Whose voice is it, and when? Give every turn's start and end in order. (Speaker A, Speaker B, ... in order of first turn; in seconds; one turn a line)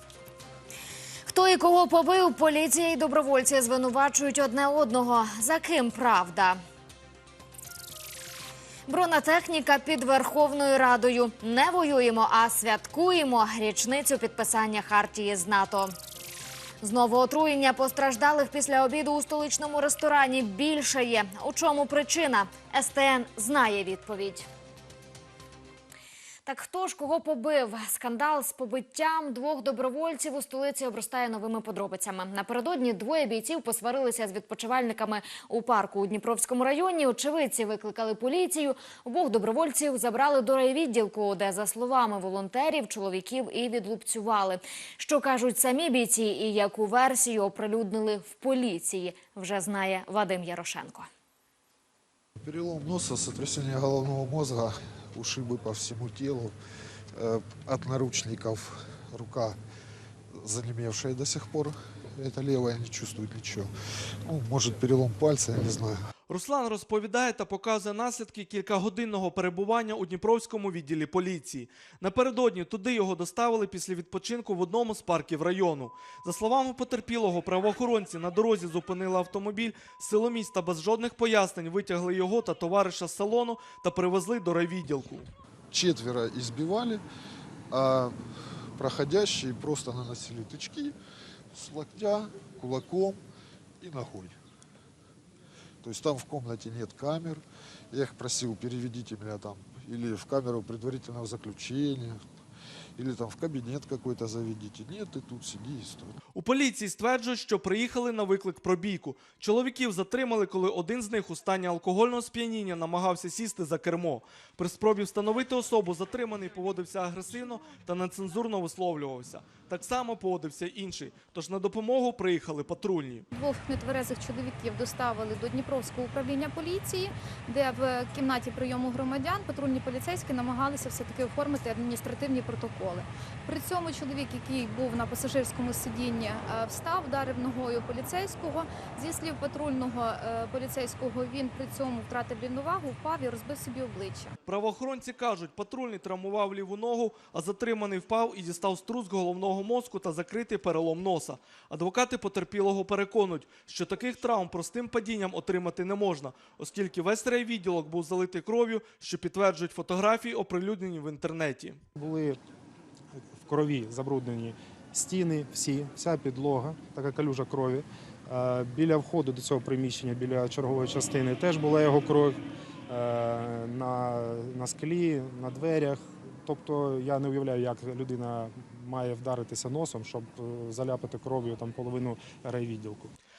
Speaker A: 1.2-6.6
Speaker A: 8.9-15.9
Speaker A: 16.8-24.5
Speaker A: 26.4-51.1
Speaker B: 52.4-56.5
Speaker B: 57.1-59.6
Speaker B: 60.3-63.7
Speaker B: 64.2-66.1
Speaker C: 66.3-85.3
Speaker B: 85.7-87.0
Speaker B: 87.7-88.2
Speaker B: 88.8-90.9
Speaker B: 91.5-93.2
Speaker B: 93.8-94.4
Speaker B: 95.8-102.2
Speaker B: 103.0-106.2
Speaker C: 106.3-123.2
Speaker D: 123.3-144.3
Speaker C: 144.4-161.8
Speaker E: 161.9-162.4
Speaker E: 163.2-183.1